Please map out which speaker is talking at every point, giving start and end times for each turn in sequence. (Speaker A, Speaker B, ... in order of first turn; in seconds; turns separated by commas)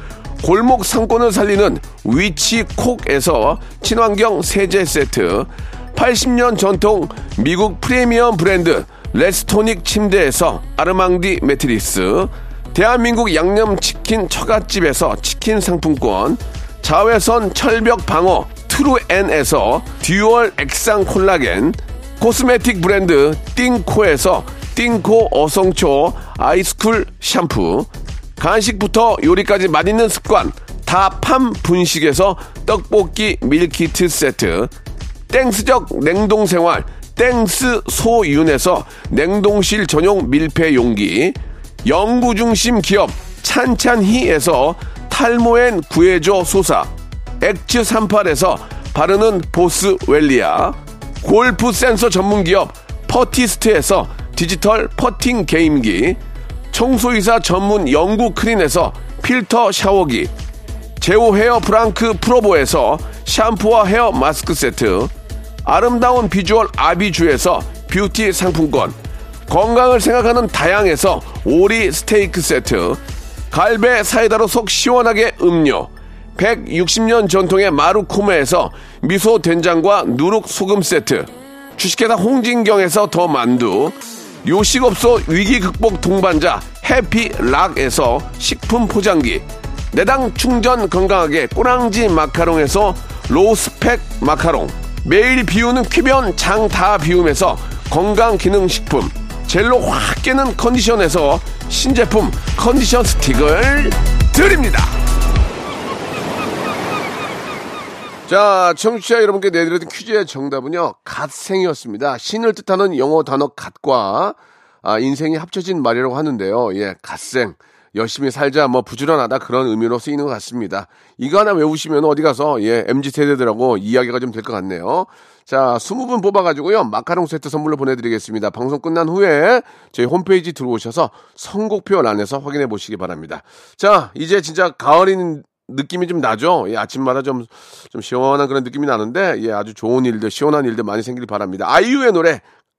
Speaker A: 0.4-34.7, Speaker A: 35.3-46.9, Speaker A: 47.4-56.2, Speaker A: 56.7-60.3, Speaker A: 61.0-65.1, Speaker A: 65.6-68.9, Speaker A: 69.5-73.0, Speaker A: 73.5-104.9, Speaker A: 108.3-142.4